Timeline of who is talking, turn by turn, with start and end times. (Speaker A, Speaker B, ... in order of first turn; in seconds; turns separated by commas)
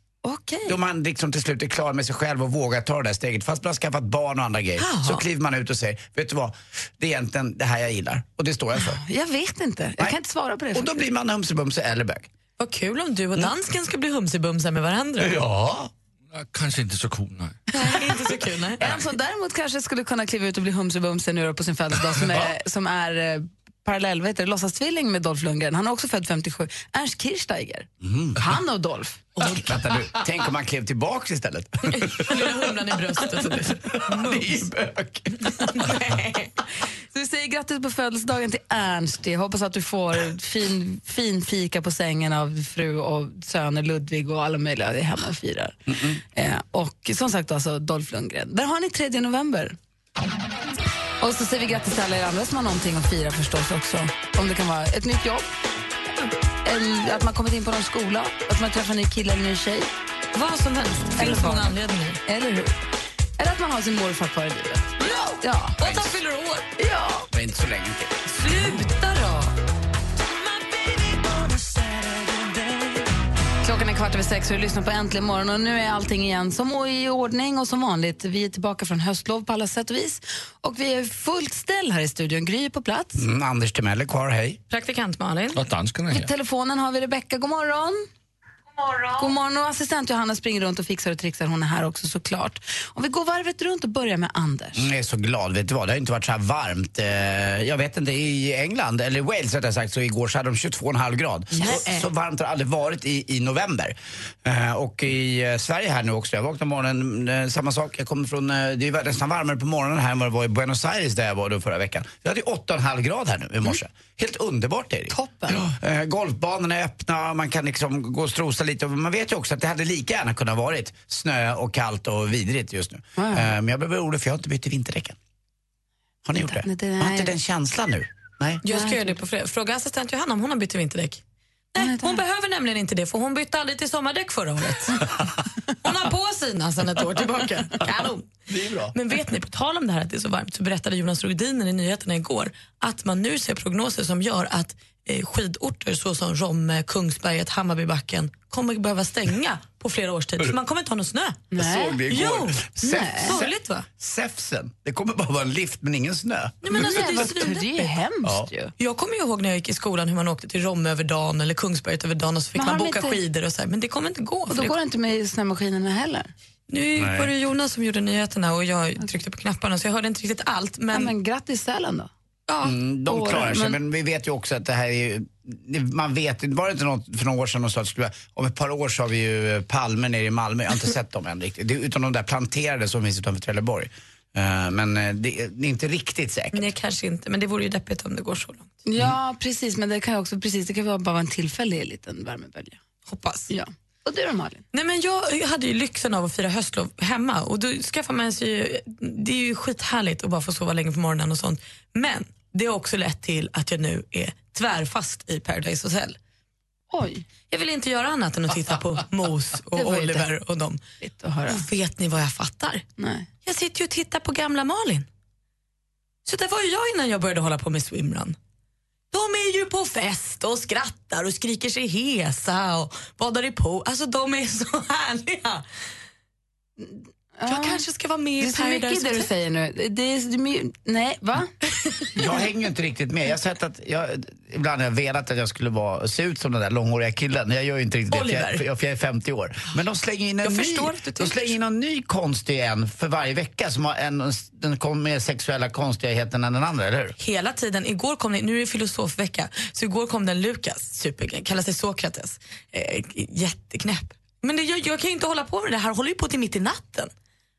Speaker A: 0.2-0.8, Speaker B: 0.7-9.0, Speaker C: 4.8-5.2, Speaker A: 8.8-11.0, Speaker B: 10.7-12.3, Speaker C: 12.6-15.3, Speaker B: 15.2-15.9, Speaker D: 16.3-17.6, Speaker C: 17.7-18.8, Speaker A: 18.8-29.2, Speaker B: 28.0-28.4, Speaker B: 29.4-32.6, Speaker C: 31.9-34.5, Speaker B: 33.7-35.5, Speaker C: 35.5-36.5, Speaker A: 37.1-49.8, Speaker B: 45.9-46.2, Speaker A: 51.2-55.5, Speaker A: 56.6-59.9, Speaker C: 60.3-62.2, Speaker A: 61.2-61.7, Speaker A: 62.2-62.8, Speaker A: 63.4-65.8, Speaker C: 65.0-66.7, Speaker B: 65.8-66.2, Speaker A: 66.8-67.3, Speaker B: 67.3-68.2, Speaker C: 68.3-69.5, Speaker A: 73.6-83.2, Speaker B: 83.2-84.6, Speaker C: 84.7-85.6, Speaker D: 85.5-86.3, Speaker A: 86.1-88.0, Speaker C: 88.8-89.3, Speaker A: 89.2-94.8, Speaker B: 94.8-125.2, Speaker A: 115.1-115.7, Speaker A: 123.2-123.5, Speaker B: 126.2-128.6, Speaker A: 126.4-127.3, Speaker C: 128.6-131.2, Speaker A: 128.7-129.2, Speaker C: 131.7-135.2, Speaker A: 131.8-132.2, Speaker C: 135.8-138.3, Speaker B: 138.5-138.9, Speaker C: 138.9-151.4, Speaker A: 151.5-152.0, Speaker B: 151.6-157.2, Speaker C: 152.1-153.8, Speaker A: 152.8-153.3, Speaker C: 156.6-158.0, Speaker A: 156.7-158.7, Speaker C: 158.8-164.7, Speaker A: 162.6-163.2, Speaker A: 164.5-166.3, Speaker C: 166.7-171.1, Speaker D: 167.0-167.3, Speaker A: 170.9-172.1, Speaker C: 172.5-172.7, Speaker B: 172.6-186.7, Speaker A: 173.1-173.8, Speaker C: 186.5-188.7, Speaker A: 188.8-192.8, Speaker C: 193.1-193.5, Speaker A: 193.5-194.6, Speaker C: 194.7-206.2, Speaker A: 206.9-207.2, Speaker C: 207.5-210.8, Speaker A: 209.7-210.3, Speaker A: 211.0-211.7, Speaker C: 211.5-212.8, Speaker A: 213.0-213.3, Speaker C: 213.4-215.1, Speaker C: 216.2-218.3, Speaker C: 219.1-225.6, Speaker A: 226.8-227.8, Speaker C: 227.5-229.3, Speaker A: 228.4-231.5, Speaker B: 232.2-247.1, Speaker C: 238.1-238.6, Speaker C: 240.4-241.5, Speaker C: 247.2-257.1